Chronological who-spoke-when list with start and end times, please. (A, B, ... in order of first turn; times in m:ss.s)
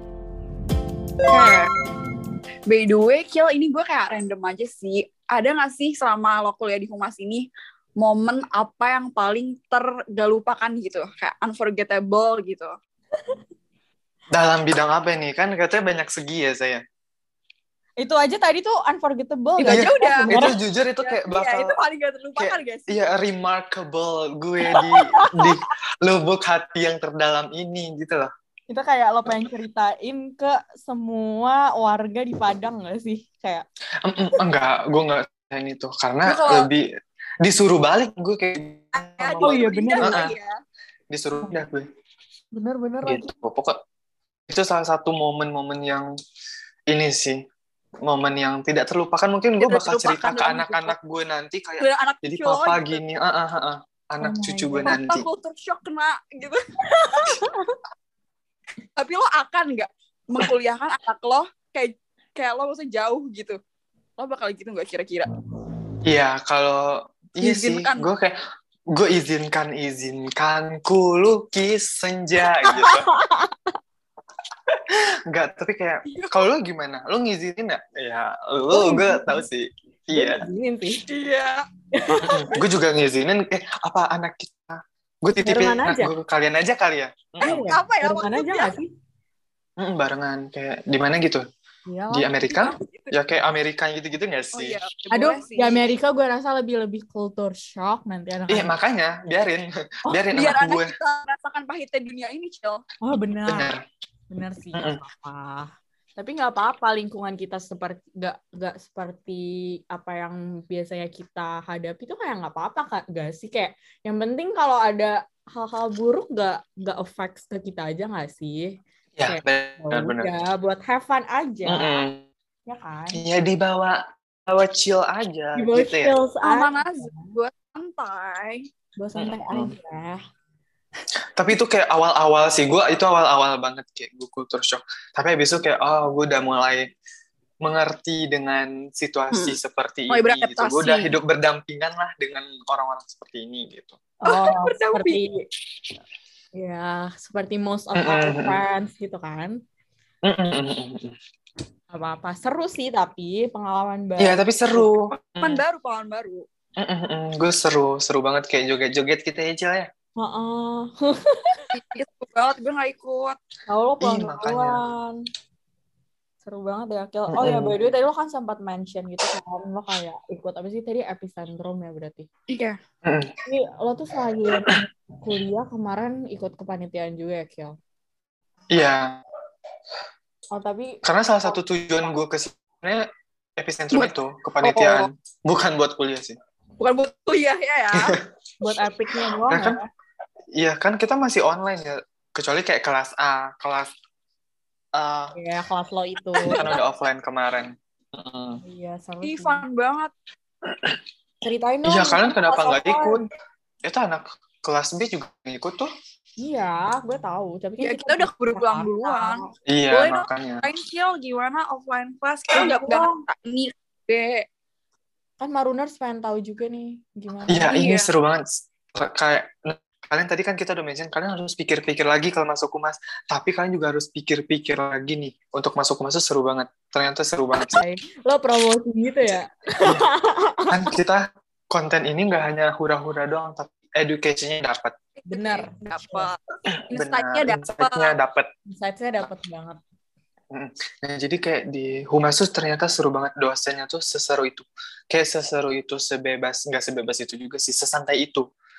0:01.2-0:01.7 A
0:02.7-0:12.7 A
0:14.3-0:16.8 B
0:18.0-0:20.5 C
0:19.6-0:22.9 A
0:19.7-0:21.8 B
0:22.4-0:28.3 B
0:24.7-0:25.5 C
0:28.7-0:33.6 C
0:34.0-0:36.8 B
0:36.2-0:36.7 A
0:37.4-0:40.3 B
0:39.0-0:40.6 A
0:39.4-0:40.2 C
0:41.1-0:41.8 B
0:42.5-0:43.3 C
0:43.0-0:43.8 B
0:44.5-0:46.1 B
0:46.9-0:47.4 B
0:48.0-0:55.2 B
0:49.6-0:50.9 A
0:51.8-0:53.0 A
0:54.2-0:55.0 C
0:54.8-0:56.6 A
0:56.9-0:57.7 C
0:59.0-1:03.6 A
1:04.2-1:05.3 A
1:06.0-1:08.3 B
1:07.4-1:08.1 A
1:08.9-1:13.0 B
1:12.6-1:13.5 C
1:15.3-1:20.4 B
1:16.1-1:16.5 A
1:18.7-1:19.4 C
1:20.1-1:21.0 C
1:21.1-1:21.6 A
1:21.9-1:22.5 C
1:22.2-1:27.6 B
1:25.4-1:26.1 C
1:27.4-1:28.9 C
1:27.4-1:28.8 A
1:29.8-1:31.4 B
1:31.9-1:32.3 C
1:32.1-1:34.8 B
1:32.5-1:33.1 A
1:34.5-1:35.9 A
1:35.1-1:38.7 C
1:38.5-1:40.9 B
1:40.0-1:40.3 C
1:40.3-1:42.8 A
1:43.0-1:43.7 C
1:43.4-1:43.8 B
1:44.3-2:02.0 C
1:44.7-1:45.0 B
1:59.2-2:00.3 B
2:01.7-2:02.2 B
2:02.7-2:03.2 C
2:03.1-2:06.1 B
2:05.5-2:07.1 C
2:06.4-2:08.6 A
2:09.0-2:10.2 C
2:09.2-2:09.7 B
2:11.4-2:16.9 B
2:17.6-2:24.0 B
2:19.3-2:19.6 A
2:20.1-2:21.2 A
2:24.2-2:25.4 C
2:24.2-2:25.2 A
2:26.5-2:29.6 C
2:27.9-2:28.6 B
2:30.2-2:31.1 B
2:31.9-2:34.9 C
2:34.2-2:35.6 B
2:35.4-2:36.4 A
2:36.8-2:39.9 B
2:40.2-2:41.6 C
2:41.7-2:43.4 A
2:43.7-2:45.1 C
2:44.0-2:44.8 B
2:46.4-2:52.3 C
2:47.3-2:47.8 B
2:52.5-2:52.8 A
2:53.0-2:53.3 B
2:53.4-2:57.8 C
2:58.7-2:59.2 B
3:00.5-3:01.0 C
3:01.0-3:03.0 B
3:03.6-3:06.4 B
3:03.9-3:05.0 A
3:06.8-3:08.1 A
3:07.9-3:08.2 B
3:08.6-3:09.8 C
3:09.5-3:09.8 B
3:10.6-3:13.9 B
3:14.9-3:15.3 B
3:15.3-3:16.6 C
3:16.4-3:16.8 A
3:16.5-3:18.6 B
3:18.6-3:19.6 C
3:19.2-3:20.1 A
3:21.4-3:23.3 C
3:21.8-3:23.2 B
3:23.8-3:25.9 B
3:26.4-3:29.5 C
3:27.8-3:34.5 A
3:29.7-3:30.6 B
3:32.5-3:33.2 C
3:35.4-3:37.8 C
3:37.5-3:47.8 B
3:37.6-3:38.1 A
3:47.7-3:50.7 C
3:50.7-3:54.9 B
3:55.2-3:56.4 A
3:55.3-3:56.3 C
3:56.9-3:58.1 A
3:56.9-3:58.5 B
3:58.7-3:59.8 C
4:00.5-4:08.4 B